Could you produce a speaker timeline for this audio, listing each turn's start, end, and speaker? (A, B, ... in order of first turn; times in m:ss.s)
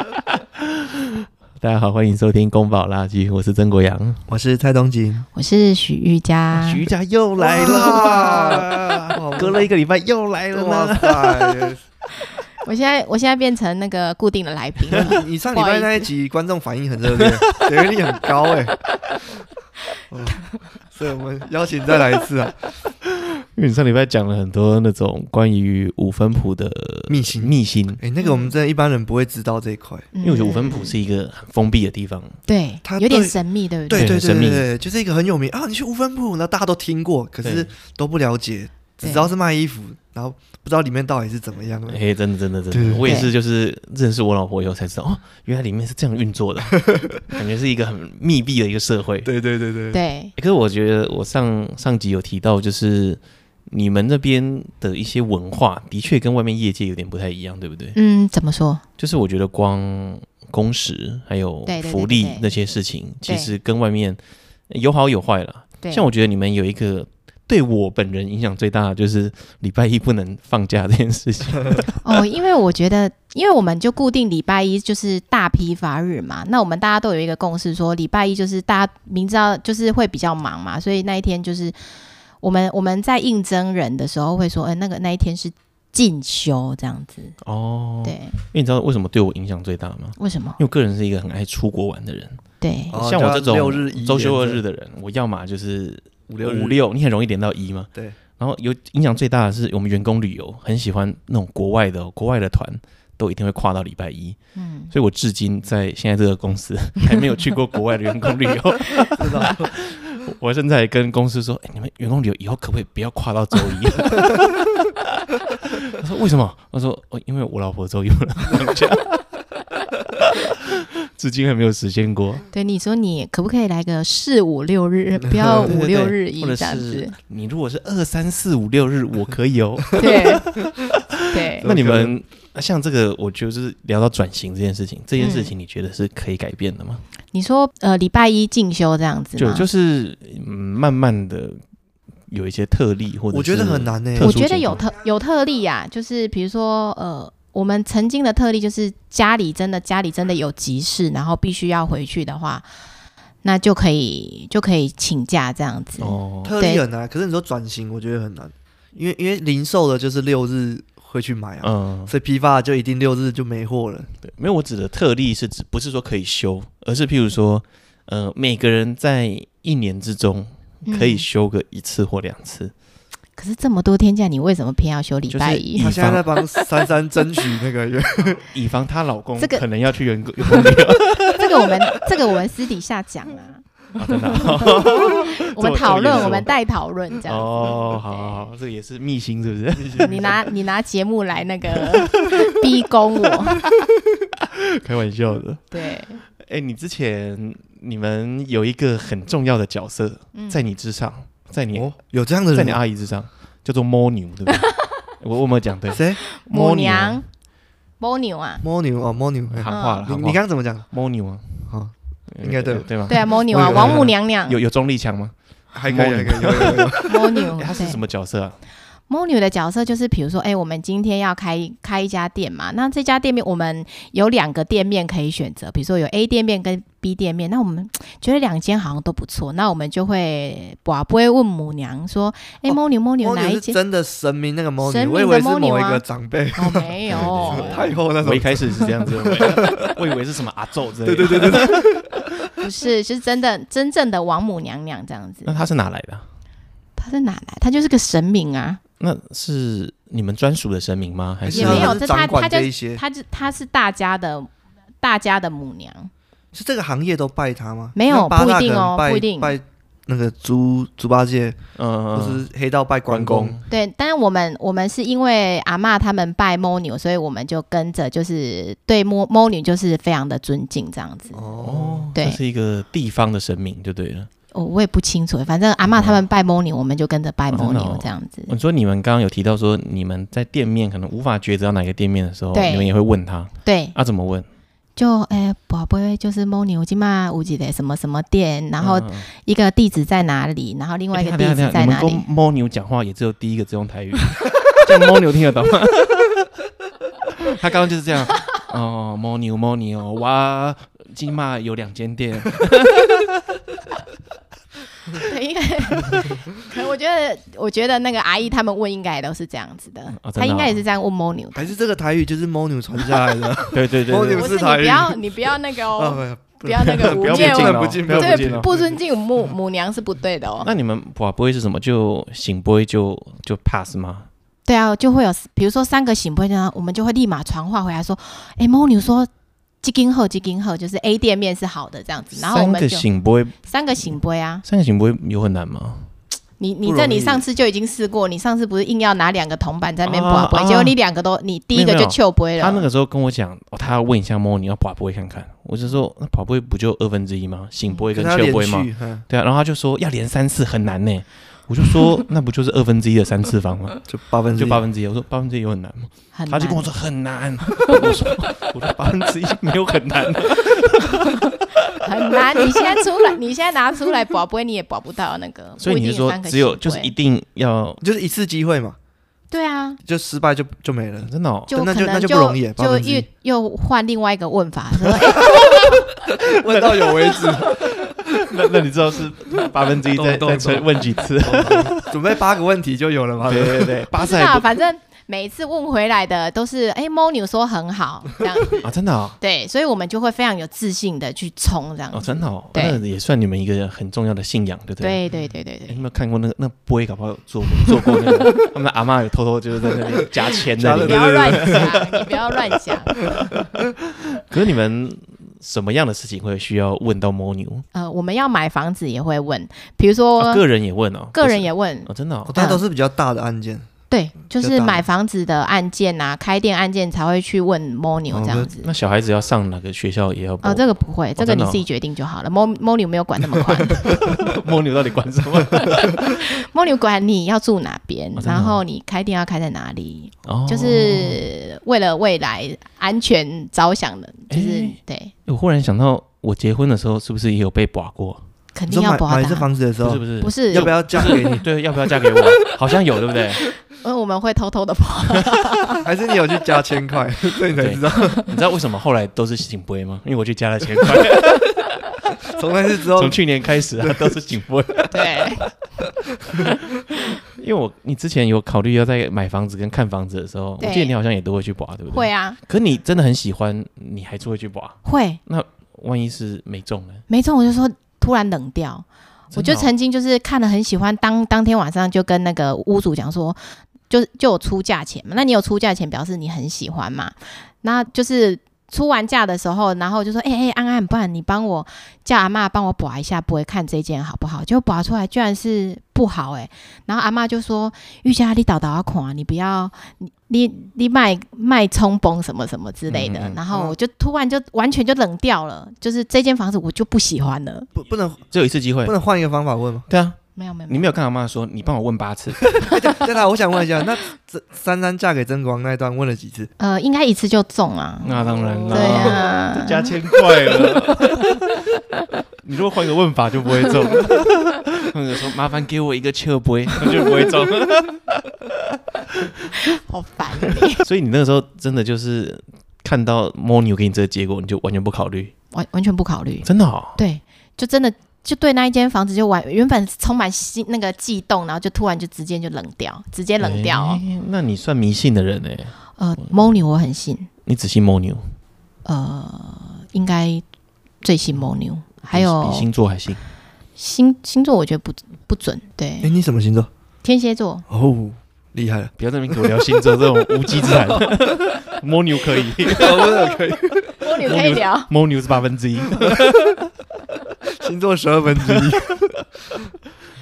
0:00.6-0:04.2 A
0:04.3-0:05.2 B
0:05.3-0:06.8 C
0:06.5-0:11.7 A
0:07.4-0:09.7 B
0:10.5-0:11.8 B
0:12.6-0:16.1 C
0:14.9-0:18.8 B
0:17.2-0:17.6 A
0:20.1-0:22.7 B
0:23.5-0:28.0 A
0:27.1-0:30.1 B
0:28.2-0:28.5 C
0:30.1-0:31.0 C
0:30.2-0:32.4 A
0:32.5-0:34.1 C
0:32.8-0:33.3 B
0:33.9-0:42.0 B
0:33.9-0:34.7 A
0:37.4-0:37.7 A
0:39.0-0:39.3 C
0:41.8-0:49.3 A
0:42.7-0:43.1 B
0:43.0-0:43.3 C
0:49.2-0:50.0 B
0:49.9-0:50.3 C
0:50.4-0:58.0 A
0:57.9-0:58.8 C
0:59.0-1:12.0 A
1:01.6-1:02.6 C
1:03.2-1:03.5 C
1:05.8-1:06.1 C
1:12.0-1:21.8 C
1:22.4-1:27.3 C
1:27.4-1:32.4 A
1:28.0-1:28.4 C
1:30.2-1:30.6 C
1:32.6-1:33.0 C
1:32.9-1:34.6 B
1:32.9-1:44.4 A
1:36.3-1:36.8 B
1:44.6-1:44.9 C
1:44.9-1:59.3 A
1:49.2-1:49.7 B
2:00.0-2:02.5 A
2:02.5-2:07.1 C
2:05.2-2:05.7 B
2:05.6-2:17.0 A
2:10.0-2:10.5 C
2:11.3-2:11.6 C
2:11.6-2:12.1 B
2:15.2-2:15.5 C
2:17.3-2:19.6 C
2:19.4-2:21.6 A
2:22.3-2:24.8 A
2:23.3-2:24.4 B
2:24.2-2:32.7 C
2:33.4-2:36.8 C
2:36.0-2:36.5 A
2:36.4-2:44.1 B
2:41.6-2:42.1 A
2:44.2-2:52.7 A
2:50.8-2:51.2 C
2:53.4-2:55.9 C
2:55.3-2:56.4 A
2:55.8-2:58.4 B
2:58.4-3:02.1 A
2:59.4-2:59.6 C
3:00.4-3:08.5 C
3:04.0-3:06.5 A
3:07.2-3:10.4 A
3:09.7-3:10.4 B
3:10.0-3:13.6 C
3:11.8-3:12.5 A
3:14.4-3:15.7 A
3:15.7-3:16.2 C
3:16.4-3:27.2 A
3:20.3-3:20.6 C
3:21.7-3:22.8 B
3:25.9-3:26.2 B
3:26.3-3:27.2 C
3:28.0-3:28.6 C
3:28.6-3:30.9 B
3:29.5-3:31.7 A
3:29.7-3:30.0 C
3:31.7-3:34.1 B
3:32.3-3:35.3 A
3:33.1-3:34.6 C
3:35.7-3:37.4 B
3:35.8-3:38.6 A
3:37.0-3:38.0 C
3:39.1-3:53.8 C
3:52.7-3:57.0 B
3:54.8-3:56.0 C
3:56.5-3:57.9 C
3:57.1-4:02.0 A
3:57.5-4:00.0 B
4:01.0-4:02.5 B
4:02.6-4:05.6 C
4:05.4-4:06.2 A
4:07.0-4:08.8 C
4:09.0-4:12.0 A
4:11.4-4:13.0 B
4:11.5-4:14.5 C
4:15.0-4:16.1 C
4:16.5-4:21.6 B
4:17.9-4:19.6 C
4:21.8-4:22.5 A
4:22.1-4:23.6 B
4:23.1-4:23.7 A
4:23.7-4:31.5 C
4:31.3-4:32.1 B
4:31.6-4:34.3 A
4:34.5-4:38.5 C
4:35.9-4:36.2 A
4:37.5-4:44.4 A
4:42.5-4:42.9 C
4:43.6-4:43.9 C
4:45.0-4:52.2 C
4:48.8-4:49.3 A
4:51.1-4:56.5 A
4:57.2-5:03.6 A
5:05.1-5:11.7 C
5:10.1-5:10.8 A
5:11.6-5:19.0 B
5:13.7-5:14.5 A
5:14.3-5:20.7 C
5:17.0-5:18.7 A
5:20.6-5:24.3 A
5:24.6-5:29.3 C
5:29.8-5:33.0 C
5:32.3-5:36.1 A
5:33.6-5:34.6 C
5:36.6-5:42.8 C
5:36.8-5:37.4 A
5:40.0-5:40.9 A
5:41.7-5:54.0 A
5:48.1-5:49.2 B
5:54.1-5:54.8 B
5:54.6-6:02.0 A
5:56.3-5:56.9 C
6:01.3-6:07.1 C
6:02.6-6:03.0 A
6:05.8-6:08.0 A
6:08.0-6:09.0 B
6:09.5-6:10.0 C
6:10.0-6:13.3 B
6:11.2-6:11.7 A
6:11.7-6:16.1 C
6:16.4-6:18.7 B
6:16.7-6:22.2 A
6:20.1-6:24.0 B
6:23.4-6:24.8 A
6:24.1-6:28.8 C
6:28.8-6:29.4 A
6:29.4-6:33.0 C
6:32.1-6:35.2 A
6:35.0-6:36.0 C
6:35.9-6:42.0 A
6:40.7-6:42.0 B
6:40.9-6:43.7 C
6:44.3-6:47.8 A
6:47.9-6:50.6 C
6:50.4-6:52.5 A
6:51.3-6:52.8 C
6:52.4-6:53.9 B
6:54.1-6:58.9 C
6:54.5-6:55.0 B
6:58.3-7:00.8 A
7:00.6-7:04.2 C
7:01.4-7:01.8 A
7:04.0-7:06.3 A
7:06.2-7:15.3 C
7:08.4-7:08.8 A
7:10.4-7:11.4 A
7:14.5-7:18.4 A
7:18.7-7:19.7 C
7:18.9-7:21.7 B
7:20.0-7:23.7 A
7:20.4-7:21.3 C
7:23.9-7:26.0 C
7:26.0-7:28.4 B
7:27.7-7:32.5 A
7:32.4-7:34.4 B
7:33.0-7:35.7 A
7:35.1-7:35.7 C
7:37.3-7:47.2 A
7:40.8-7:41.1 C
7:42.1-7:42.6 C
7:45.0-7:45.4 C
7:47.3-8:17.9 C
7:49.5-7:49.9 A
8:13.1-8:13.6 A
8:18.0-8:18.5 B
8:18.5-8:19.1 A
8:19.0-8:20.1 B
8:20.1-8:22.9 A
8:20.6-8:21.1 C
8:22.8-8:26.7 B
8:26.8-8:30.1 C
8:28.2-8:31.8 A
8:28.5-8:29.4 B
8:32.6-8:38.8 A
8:39.3-8:39.7 A
8:39.8-8:41.0 C
8:41.0-8:45.5 A
8:45.7-8:54.2 C
8:46.6-8:47.2 A
8:53.6-8:56.5 A
8:56.2-8:57.5 C
8:57.6-8:58.4 A
8:59.0-9:00.6 C
9:01.2-9:02.9 C
9:02.3-9:03.4 A
9:04.0-9:06.3 C
9:06.2-9:06.9 B
9:07.2-9:07.8 C
9:07.9-9:09.8 B
9:09.2-9:13.6 A
9:10.7-9:11.6 B
9:12.9-9:14.3 B
9:14.2-9:15.1 C
9:14.4-9:16.8 A
9:16.2-9:16.6 B
9:17.7-9:19.3 B
9:18.6-9:19.2 A